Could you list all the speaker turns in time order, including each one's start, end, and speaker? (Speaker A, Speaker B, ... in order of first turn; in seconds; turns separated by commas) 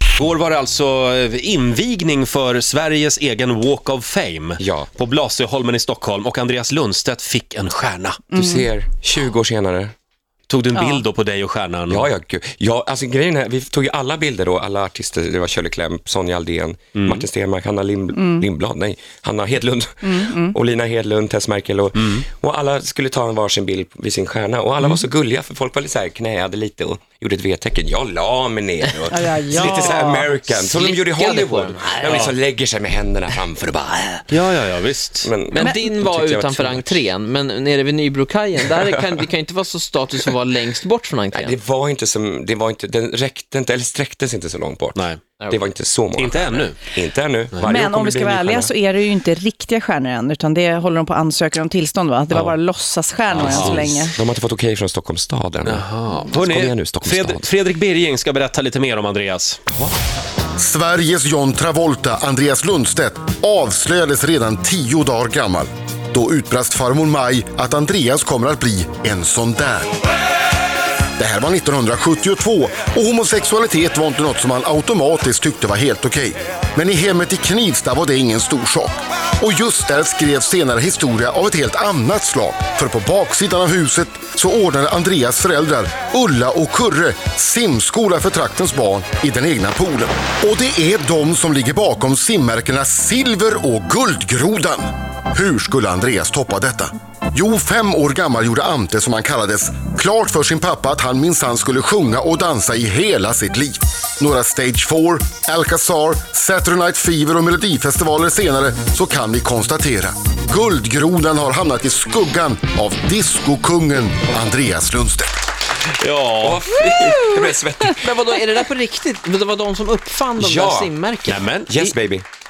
Speaker A: 0.1-8.2, Speaker B: 4.6-4.9, Speaker C: 8.3-8.7, Speaker B: 8.3-9.9, Speaker A: 10.5-12.1, Speaker C: 10.7-11.0, Speaker B: 11.9-34.4, Speaker A: 16.9-17.2, Speaker C: 18.1-18.4, Speaker C: 20.0-20.6, Speaker C: 29.1-30.3, Speaker D: 29.6-29.9, Speaker D: 30.5-32.3, Speaker A: 32.0-32.3, Speaker A: 34.3-35.3, Speaker B: 35.2-37.0, Speaker D: 35.5-41.6, Speaker C: 35.5-35.9, Speaker B: 41.3-48.7, Speaker A: 44.9-45.2, Speaker A: 46.1-46.8, Speaker C: 47.6-54.2, Speaker B: 52.3-52.5, Speaker A: 53.3-53.8, Speaker B: 53.3-57.5, Speaker A: 55.6-59.6, Speaker B: 59.7-60.0, Speaker E: 60.6-69.9, Speaker E: 71.2-115.3, Speaker A: 116.0-116.6, Speaker B: 116.4-118.0, Speaker D: 118.0-121.5, Speaker B: 120.4-120.9, Speaker A: 121.3-121.9, Speaker B: 121.6-122.2